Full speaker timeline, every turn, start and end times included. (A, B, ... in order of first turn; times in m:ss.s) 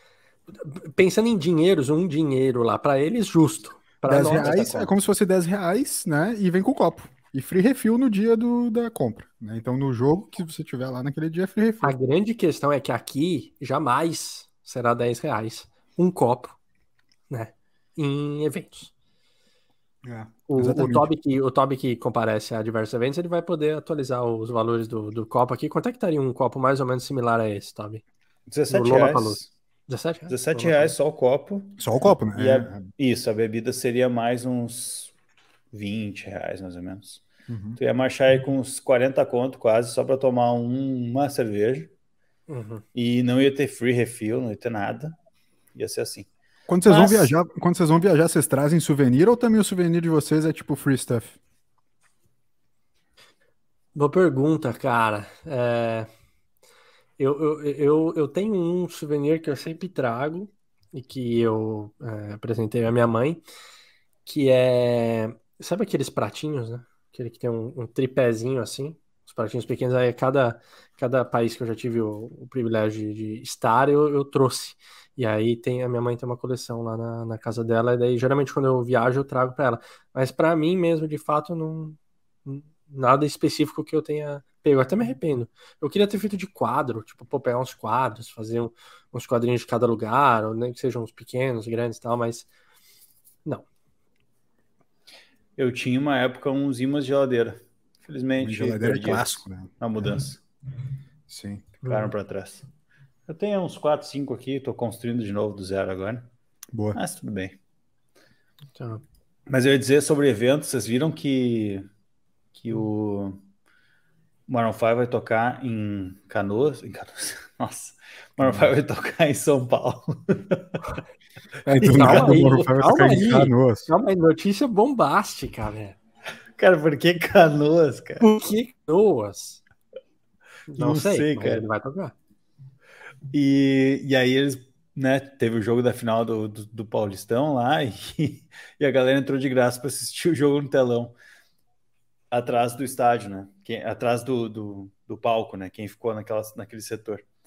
0:00.6-0:04.9 A
0:04.1-0:12.0 B
0:11.8-0:16.6 A
0:17.3-0:18.9 A
0:20.0-0:21.1 B
0:20.5-0:28.0 A
0:28.5-0:29.5 C
0:28.7-0:30.9 A
0:30.3-0:31.8 C
0:31.8-0:32.9 B
0:32.4-0:35.1 C
0:35.7-0:37.2 C
0:37.5-0:37.8 B
0:37.8-0:41.9 C
0:42.5-0:42.8 A
0:43.0-0:45.2 C
0:45.7-0:46.3 C
0:46.7-0:51.4 B
0:46.9-0:47.3 C
0:54.0-0:56.1 A
0:57.2-1:03.4 A
1:04.3-1:32.5 A
1:35.6-1:40.4 C
1:38.4-1:39.7 B
1:41.3-1:41.8 B
1:41.8-1:42.1 A
1:41.8-1:42.6 C
1:43.3-1:46.3 C
1:46.7-1:47.0 B
1:46.9-1:47.6 C
1:48.8-1:49.0 A
1:49.5-1:51.9 C
1:52.6-1:53.4 C
1:54.5-2:00.8 C
1:58.4-1:58.7 B
2:01.6-2:03.9 B
2:01.8-2:06.0 A
2:02.0-2:02.4 C
2:06.6-2:08.3 C
2:08.2-2:09.6 A
2:10.7-2:12.1 A
2:10.8-2:11.6 C
2:13.3-2:21.1 C
2:22.3-2:27.3 C